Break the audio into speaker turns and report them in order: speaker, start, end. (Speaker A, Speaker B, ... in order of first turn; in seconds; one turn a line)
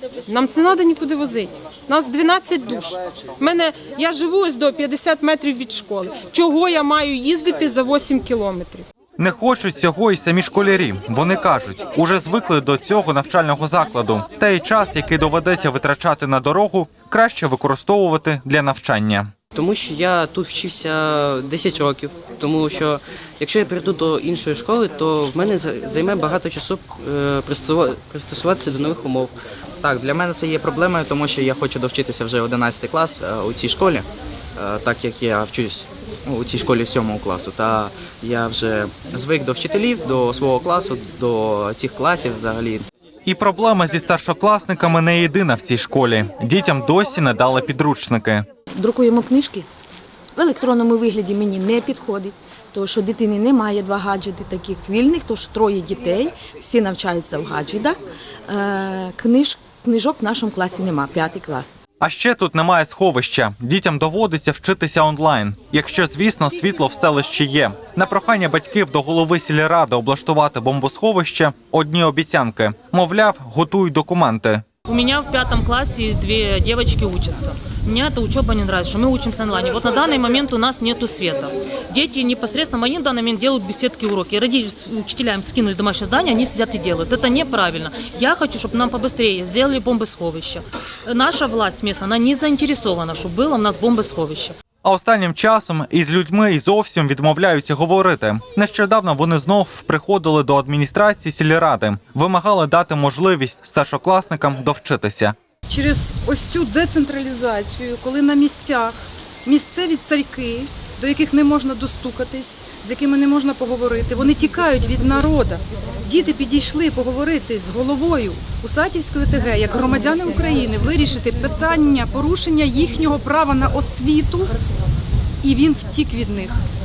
Speaker A: 0.3-8.9
Speaker B: 9.2-19.3
Speaker C: 19.5-29.4
Speaker D: 29.8-42.9
Speaker B: 43.2-48.4
Speaker E: 48.8-49.7
Speaker E: 50.4-61.7
Speaker B: 62.0-74.7
Speaker F: 74.8-94.6
Speaker B: 94.8-105.3
Speaker G: 105.7-124.5
Speaker G: 125.4-126.6